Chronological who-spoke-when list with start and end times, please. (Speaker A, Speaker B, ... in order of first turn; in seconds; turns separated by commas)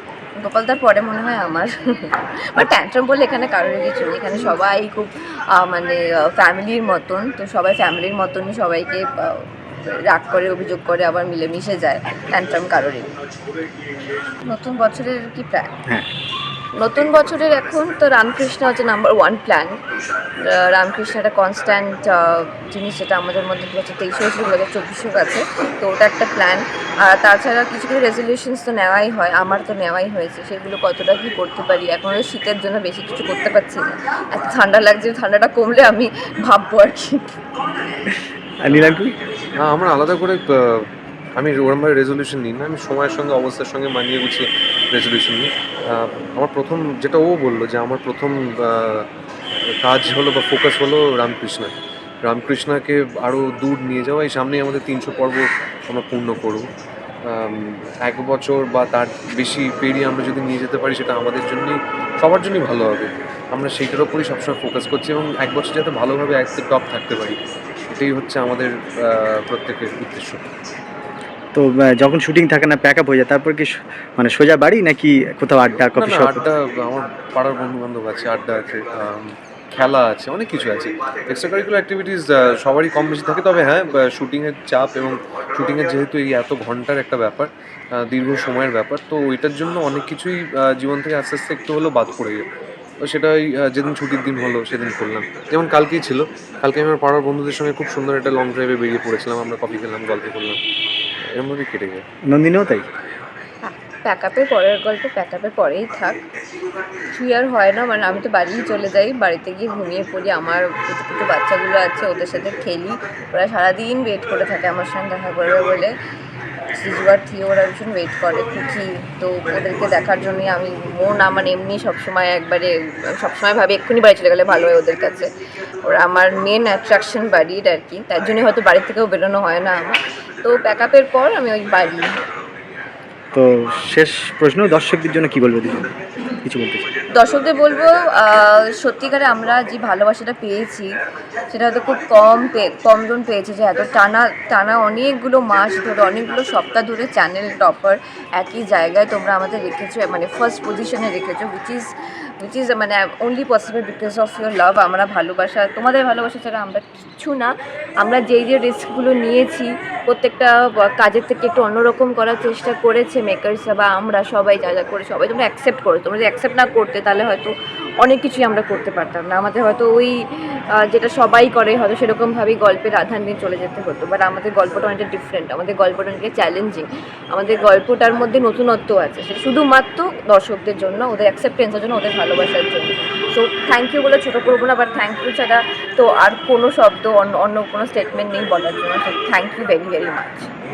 Speaker A: 0.4-13.1, Speaker A: 14.4-15.7, Speaker A: 16.8-19.7, Speaker A: 20.4-37.4, Speaker B: 38.6-39.1, Speaker C: 39.6-49.1, Speaker C: 49.8-51.7, Speaker C: 52.2-56.7, Speaker C: 57.2-67.4, Speaker C: 67.9-70.4, Speaker B: 71.5-76.5, Speaker C: 76.0-92.5, Speaker C: 93.0-100.6, Speaker C: 101.2-102.0, Speaker B: 102.3-102.8, Speaker A: 103.6-106.2, Speaker A: 107.1-115.9, Speaker A: 116.7-125.3, Speaker A: 125.8-132.2, Speaker B: 133.3-135.9, Speaker B: 136.4-136.8, Speaker A: 137.1-140.9, Speaker A: 141.5-190.5